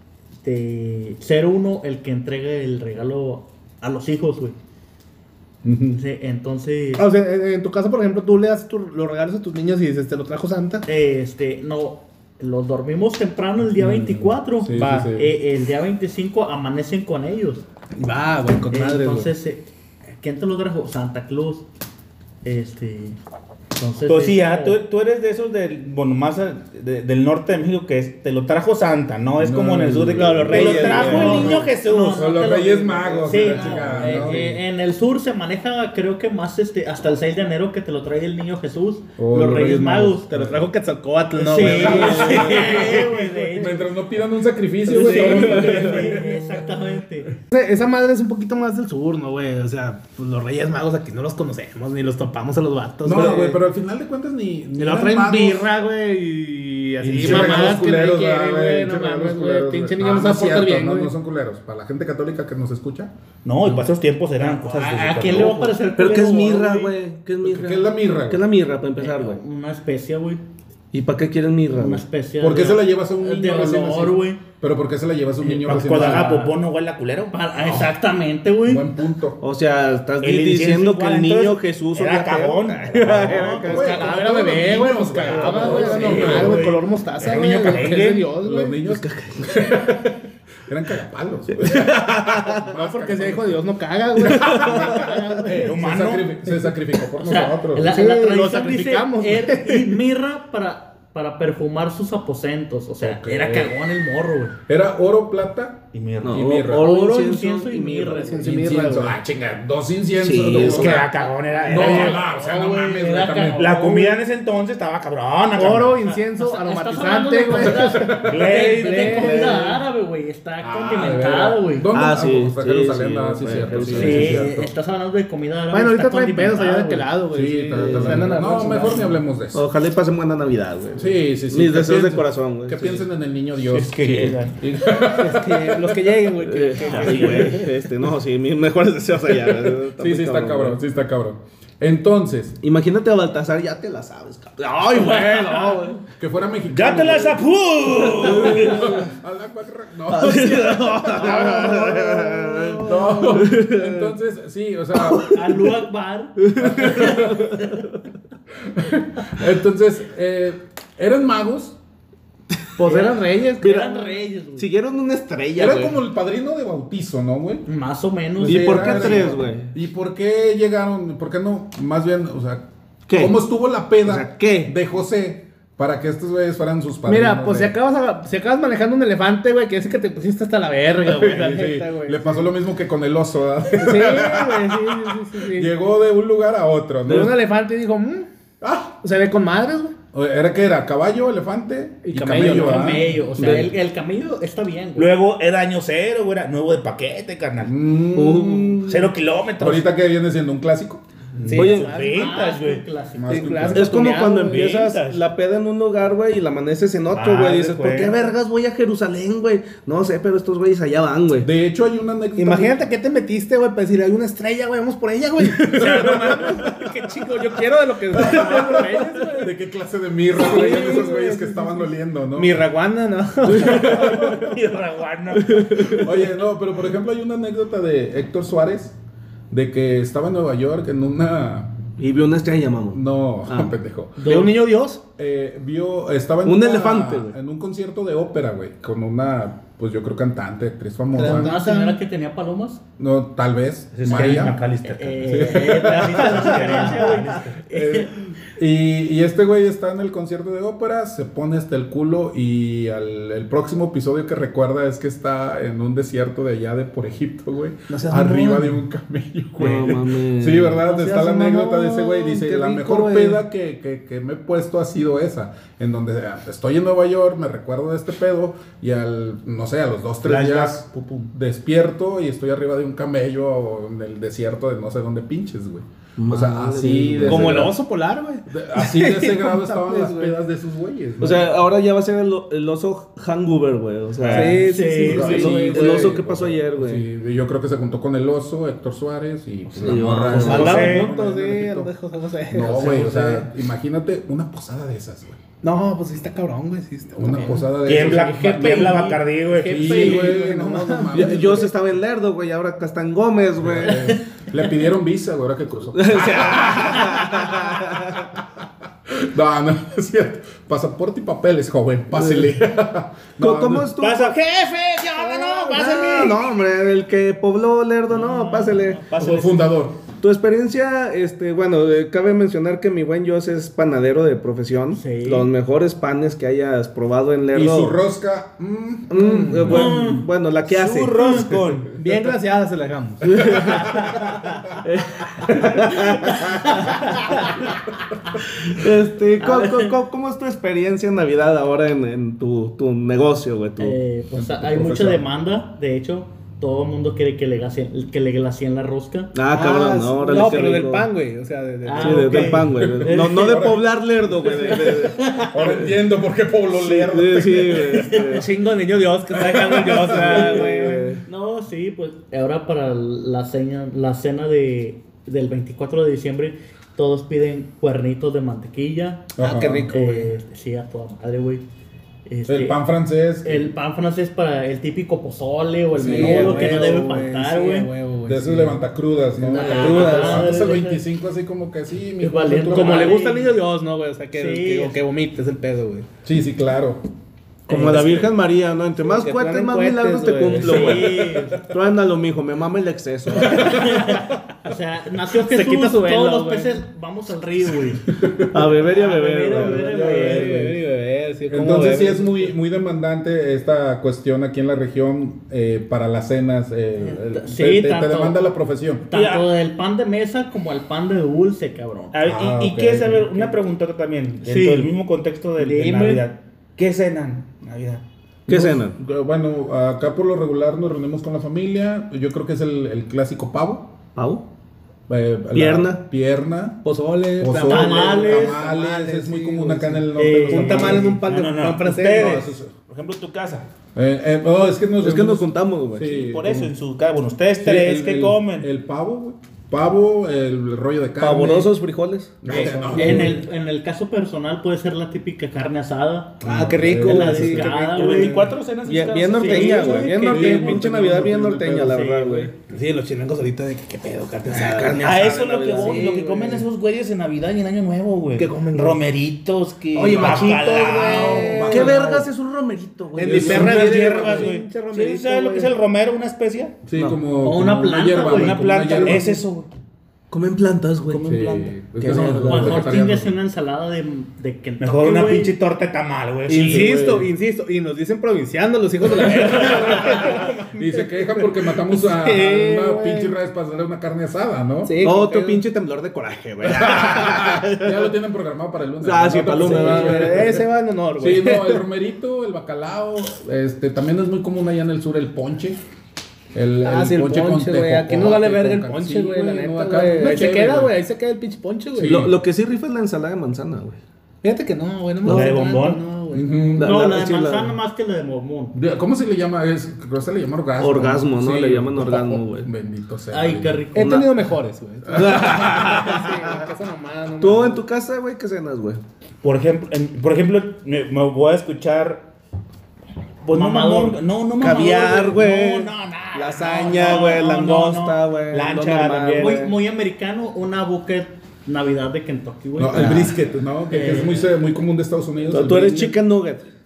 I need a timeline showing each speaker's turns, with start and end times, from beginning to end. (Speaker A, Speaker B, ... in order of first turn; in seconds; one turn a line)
Speaker A: 0.4-4.5
Speaker B: 5.6-6.0
Speaker A: 5.9-7.1
Speaker C: 7.0-10.8
Speaker A: 10.8-17.6
Speaker B: 13.7-15.3
Speaker C: 14.7-15.1
Speaker C: 17.9-19.3
Speaker A: 18.7-19.6
Speaker A: 20.2-21.6
Speaker A: 22.4-23.2
Speaker A: 23.8-24.8
Speaker D: 24.1-32.5
Speaker B: 29.4-34.6
Speaker C: 30.1-31.5
Speaker E: 30.5-31.5
Speaker A: 30.6-40.3
Speaker C: 33.2-34.4
Speaker B: 39.2-40.6
Speaker C: 40.3-43.7
Speaker A: 41.4-43.9
Speaker B: 41.6-46.7
Speaker C: 44.9-46.1
Speaker A: 44.9-47.4
Speaker C: 47.5-53.6
Speaker B: 53.0-55.7
Speaker C: 54.8-61.1
Speaker B: 57.0-63.1
Speaker D: 57.2-57.6
Speaker A: 57.2-57.6
Speaker D: 63.4-65.8
Speaker A: 64.4-67.0
Speaker E: 65.9-69.4
Speaker B: 67.4-68.4
Speaker A: 69.0-70.4
Speaker E: 70.9-72.0
Speaker A: 71.7-74.4
Speaker B: 72.4-76.3
Speaker A: 75.4-76.5
Speaker D: 75.6-77.9
Speaker A: 77.3-78.9
Speaker B: 78.7-79.4
Speaker E: 79.4-84.1
Speaker D: 80.2-84.1
Speaker B: 83.0-86.6
Speaker C: 83.6-88.8
Speaker E: 85.4-85.7
Speaker A: 85.5-86.8
Speaker D: 87.2-88.2
Speaker B: 88.4-90.2
Speaker E: 88.8-89.9
Speaker B: 90.7-93.6
Speaker E: 91.6-92.6
Speaker C: 92.7-95.8
Speaker B: 94.2-97.9
Speaker D: 95.5-96.3
Speaker A: 97.2-104.5
Speaker C: 97.8-100.0
Speaker B: 103.0-103.8
Speaker B: 104.7-106.9
Speaker D: 105.9-106.6
Speaker E: 106.2-108.4
Speaker A: 106.7-108.5
Speaker C: 108.2-109.2
Speaker B: 108.4-111.1
Speaker E: 110.2-111.0
Speaker D: 110.5-112.2
Speaker A: 111.5-114.0
Speaker B: 111.6-114.1
Speaker D: 113.5-116.0
Speaker C: 115.5-119.8
Speaker A: 116.0-121.9
Speaker B: 117.7-118.4
Speaker D: 118.2-119.4
Speaker E: 119.3-119.6
Speaker B: 120.6-124.7
Speaker E: 121.9-124.5
Speaker A: 123.9-127.1
Speaker C: 125.7-129.2
Speaker B: 127.3-129.6
Speaker E: 127.8-128.3
Speaker E: 129.5-133.1
Speaker B: 130.9-136.1
Speaker D: 133.7-134.6
Speaker C: 135.1-137.7
Speaker E: 136.4-140.8
Speaker B: 139.5-142.6
Speaker E: 142.6-146.0
Speaker C: 145.2-145.8
Speaker B: 146.2-147.4
Speaker D: 146.7-148.9
Speaker E: 148.1-149.1
Speaker B: 148.2-155.6
Speaker E: 150.1-154.1
Speaker A: 155.3-157.6
Speaker E: 156.4-157.7
Speaker B: 156.6-157.6
Speaker B: 158.6-161.8
Speaker C: 162.8-164.2
Speaker E: 162.8-164.0
Speaker A: 162.9-164.7
Speaker E: 164.6-165.9
Speaker B: 165.6-167.7
Speaker A: 167.7-169.2
Speaker B: 168.4-177.7
Speaker E: 168.4-169.7
Speaker E: 173.1-173.4
Speaker E: 174.0-174.7
Speaker C: 177.1-182.5
Speaker B: 181.0-187.3
Speaker C: 183.7-185.7
Speaker C: 187.1-188.3
Speaker E: 187.1-187.3
Speaker B: 188.6-188.9
Speaker C: 189.0-189.9
Speaker B: 190.1-193.7
Speaker C: 192.1-193.1
Speaker A: 192.3-195.1
Speaker E: 193.4-193.7
Speaker D: 195.0-197.7
Speaker B: 197.6-199.0
Speaker E: 198.1-199.0
Speaker D: 198.8-199.9
Speaker B: 199.6-201.0
Speaker D: 201.4-202.8
Speaker C: 201.4-202.4
Speaker E: 201.5-201.9
Speaker A: 201.8-203.6
Speaker B: 203.2-204.1
Speaker C: 203.3-204.7
Speaker E: 203.7-211.5
Speaker D: 204.3-205.2
Speaker D: 207.1-208.2
Speaker B: 211.4-212.8
Speaker C: 212.4-219.5
Speaker D: 216.1-216.3
Speaker B: 218.2-222.6
Speaker C: 220.3-224.5
Speaker D: 223.7-226.0
Speaker B: 223.7-224.4
Speaker E: 225.4-226.1
Speaker B: 225.9-228.9
Speaker B: 229.5-231.7
Speaker E: 232.0-233.7
Speaker B: 232.9-234.4
Speaker A: 234.2-234.6
Speaker C: 234.2-235.0
Speaker B: 235.2-241.6
Speaker E: 236.4-237.3
Speaker C: 241.1-242.0
Speaker A: 241.1-242.8
Speaker B: 243.0-244.6
Speaker D: 243.9-247.6
Speaker A: 244.8-248.2
Speaker B: 245.3-246.6
Speaker B: 247.7-277.8
Speaker C: 257.9-258.8
Speaker E: 259.6-260.8
Speaker C: 260.8-263.4
Speaker D: 270.2-271.3
Speaker E: 276.2-277.7
Speaker C: 277.2-280.4
Speaker B: 278.5-281.5
Speaker E: 281.2-287.1
Speaker B: 284.2-291.9
Speaker C: 284.2-286.0
Speaker A: 284.5-285.8
Speaker E: 289.8-291.0
Speaker D: 290.2-291.1
Speaker C: 290.3-293.5
Speaker B: 292.5-295.4
Speaker C: 295.6-301.6
Speaker B: 297.1-298.9
Speaker D: 297.8-300.3
Speaker A: 298.1-299.2
Speaker B: 299.6-301.7
Speaker E: 301.1-304.1
Speaker B: 303.6-308.4
Speaker E: 305.9-308.2
Speaker B: 309.1-313.9
Speaker E: 312.2-312.6
Speaker E: 313.4-314.4
Speaker D: 314.0-316.4
Speaker E: 315.5-319.0
Speaker A: 318.1-319.1
Speaker D: 319.1-319.6
Speaker B: 319.1-320.0
Speaker E: 320.2-328.0
Speaker A: 324.9-325.5
Speaker B: 327.5-329.9
Speaker E: 329.1-331.4
Speaker C: 329.2-329.7
Speaker A: 329.6-330.2
Speaker D: 329.7-331.9
Speaker A: 331.2-331.4
Speaker C: 331.9-334.1
Speaker E: 333.3-334.0
Speaker E: 334.8-336.4
Speaker A: 335.9-337.7
Speaker E: 338.6-344.0
Speaker A: 339.4-339.9
Speaker A: 343.8-349.3
Speaker B: 344.3-345.2
Speaker E: 349.3-351.1
Speaker C: 349.5-352.7
Speaker A: 350.3-350.6
Speaker A: 351.8-353.7
Speaker E: 352.0-355.7
Speaker B: 352.7-353.9
Speaker A: 354.4-355.8
Speaker B: 355.5-358.1
Speaker E: 356.7-358.5
Speaker A: 357.8-358.4
Speaker C: 358.2-361.1
Speaker B: 359.4-360.4
Speaker E: 360.1-361.2
Speaker A: 360.2-369.3
Speaker B: 369.4-369.9
Speaker C: 369.4-370.3
Speaker A: 369.9-371.6
Speaker A: 372.2-372.8
Speaker B: 372.5-373.7
Speaker A: 373.4-377.9
Speaker B: 375.9-376.7
Speaker E: 376.0-377.1
Speaker C: 376.0-378.8
Speaker B: 378.3-383.2
Speaker A: 379.5-381.0
Speaker C: 379.6-380.4
Speaker E: 379.6-380.5
Speaker A: 382.2-383.6
Speaker C: 382.6-386.1
Speaker A: 384.3-385.0
Speaker B: 386.2-387.0
Speaker E: 387.7-393.9
Speaker A: 387.7-388.1
Speaker C: 389.0-391.2
Speaker A: 390.5-391.6
Speaker A: 393.5-400.7
Speaker C: 395.4-396.8
Speaker B: 398.1-398.5
Speaker E: 398.5-400.7
Speaker C: 399.6-402.4
Speaker B: 401.5-409.1
Speaker A: 407.0-408.4
Speaker A: 409.1-412.1
Speaker D: 409.1-409.5
Speaker D: 412.1-418.0
Speaker B: 412.2-413.5
Speaker A: 414.4-414.9
Speaker A: 415.6-416.2
Speaker E: 418.5-418.9
Speaker B: 418.5-423.9
Speaker E: 424.1-424.4
Speaker B: 425.1-426.8
Speaker E: 425.5-426.0
Speaker C: 426.8-432.5
Speaker B: 427.4-431.1
Speaker A: 427.6-428.6
Speaker A: 430.1-431.1
Speaker D: 430.5-433.7
Speaker B: 432.1-432.7
Speaker B: 433.9-436.7
Speaker E: 435.0-436.1
Speaker D: 436.1-438.7
Speaker B: 437.6-441.7
Speaker E: 441.2-443.4
Speaker B: 442.4-443.4
Speaker C: 442.5-443.2
Speaker A: 442.9-448.5
Speaker B: 446.4-447.7
Speaker C: 446.4-448.5
Speaker D: 447.9-450.5
Speaker E: 448.8-452.5
Speaker A: 449.3-450.9
Speaker B: 450.2-452.1
Speaker A: 451.9-452.5
Speaker C: 452.6-455.1
Speaker E: 454.5-456.2
Speaker D: 455.0-461.7
Speaker C: 455.8-456.6
Speaker C: 458.4-459.0
Speaker C: 459.9-462.1
Speaker E: 460.1-460.7
Speaker B: 460.1-462.2
Speaker E: 461.6-464.2
Speaker C: 463.1-465.7
Speaker B: 463.2-464.5
Speaker D: 463.3-466.8
Speaker B: 466.8-469.3
Speaker A: 467.4-468.6
Speaker D: 468.1-469.7
Speaker E: 470.3-472.9
Speaker B: 471.1-473.4
Speaker A: 472.4-475.5
Speaker D: 474.8-477.0
Speaker C: 476.5-483.3
Speaker B: 476.6-477.3
Speaker D: 479.1-480.5
Speaker B: 479.4-485.0
Speaker C: 484.8-485.6
Speaker E: 485.0-487.9
Speaker B: 486.6-490.6
Speaker E: 489.0-490.6
Speaker C: 489.5-491.8
Speaker B: 491.2-495.8
Speaker B: 496.5-500.9
Speaker C: 496.8-502.3
Speaker B: 501.9-502.3
Speaker E: 502.0-504.0
Speaker C: 504.4-506.7
Speaker E: 505.2-505.6
Speaker D: 505.2-506.0
Speaker B: 506.3-507.1
Speaker E: 506.7-507.8
Speaker A: 506.8-508.8
Speaker B: 508.7-513.9
Speaker E: 510.8-512.7
Speaker A: 513.3-514.3
Speaker C: 513.9-517.8
Speaker E: 514.0-514.3
Speaker B: 515.1-515.6
Speaker E: 515.1-516.5
Speaker E: 517.4-519.0
Speaker D: 519.4-522.3
Speaker D: 523.4-529.7
Speaker A: 523.5-524.2
Speaker E: 524.6-529.7
Speaker A: 527.1-527.4
Speaker A: 529.4-533.4
Speaker B: 532.8-536.2
Speaker E: 532.9-533.3
Speaker A: 533.9-534.5
Speaker E: 535.5-536.6